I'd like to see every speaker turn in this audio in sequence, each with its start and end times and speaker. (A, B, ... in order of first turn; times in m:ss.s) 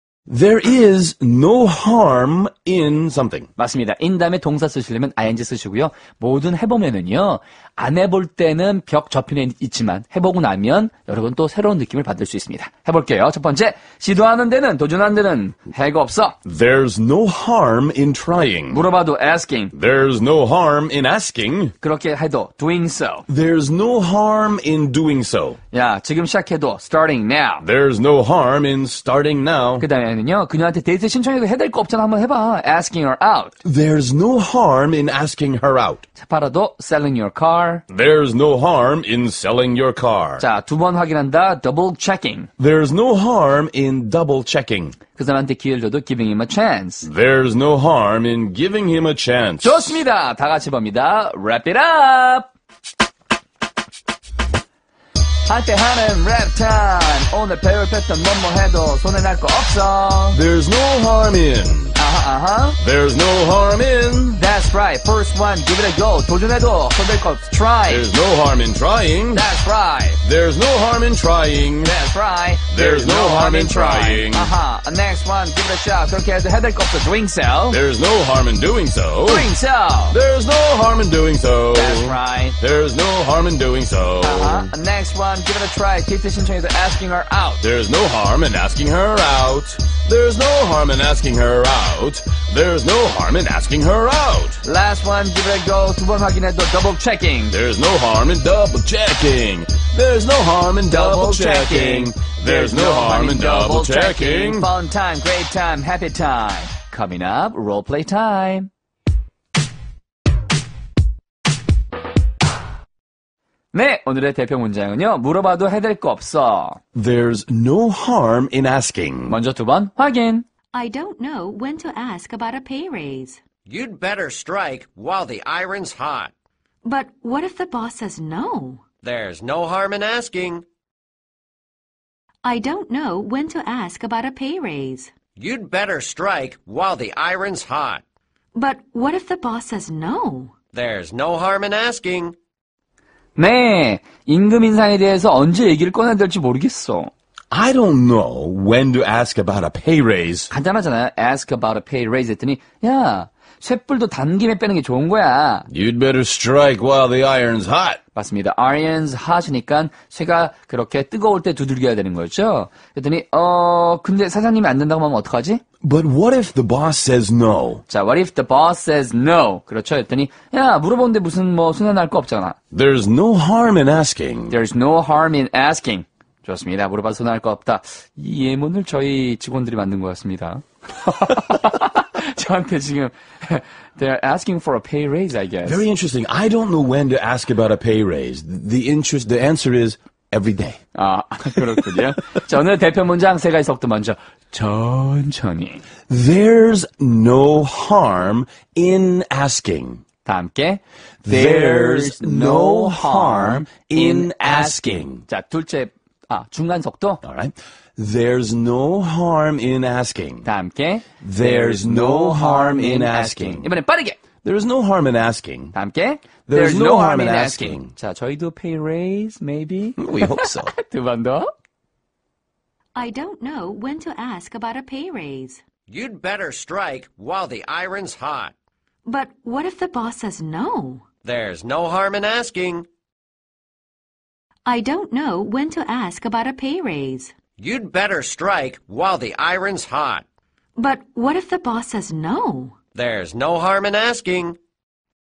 0:00.3-0:03.5 A
0:03.6-0:16.4 B
0:16.4-0:18.8 A
0:18.7-0:19.7 B
0:19.7-0:21.7 A
0:21.8-0:23.2 B
0:23.3-0:25.6 A
0:25.7-0:27.6 B
0:27.6-0:29.8 A
0:29.8-0:33.5 B
0:33.6-0:36.0 A
0:36.2-0:37.8 B
0:37.9-0:40.4 A
0:40.4-0:42.5 B
0:42.6-0:45.0 A
0:45.2-0:47.1 B
0:47.0-0:50.0 A
0:49.6-0:52.5 B
0:55.5-1:00.4 B
1:00.3-1:02.0 A
1:02.0-1:02.8 B
1:02.8-1:04.4 A
1:04.4-1:08.1 B
1:07.9-1:09.5 A
1:09.3-1:10.2 B
1:10.2-1:11.9 A
1:11.8-1:17.8 B
1:12.7-1:14.5 A
1:17.7-1:19.5 A
1:19.2-1:20.2 B
1:20.1-1:24.7 A
1:21.7-1:22.6 B
1:24.2-1:27.6 B
1:27.6-1:34.6 A
1:34.6-1:37.5 B
1:37.5-1:44.7 A
1:40.9-1:48.7 B
1:53.7-1:56.8 B
1:56.9-1:59.4 A
1:59.3-2:00.4 B
2:00.7-2:03.4 C
2:03.7-2:06.3 D
2:06.8-2:08.8 C
2:09.0-2:10.6 D
2:12.4-2:15.1 C
2:15.4-2:18.0 D
2:18.5-2:20.5 C
2:20.7-2:22.4 D
2:23.4-2:27.1 B
2:27.5-2:30.5 A
2:30.5-2:35.7 B
2:35.7-2:38.0 A
2:38.1-2:45.6 B
2:45.8-2:47.8 A
2:47.9-2:52.6 B
2:52.7-2:54.6 A
2:54.5-3:05.8 B
3:05.6-3:10.8 A
3:10.9-3:15.8 B
3:16.1-3:20.0 A
3:20.2-3:27.2 B
3:21.2-3:25.2 A
3:27.2-3:30.5 A
3:30.4-3:34.2 B
3:31.2-3:33.7 A
3:34.4-3:35.7 A
3:35.7-3:41.5 B
3:36.4-3:37.9 A
3:40.0-3:40.7 A
3:42.9-3:45.6 C
3:45.9-3:48.5 D
3:49.0-3:51.0 C
3:51.2-3:52.9 D
3:54.6-3:57.3 C
3:57.6-4:00.2 D
4:00.8-4:02.8 C
4:02.9-4:04.6 D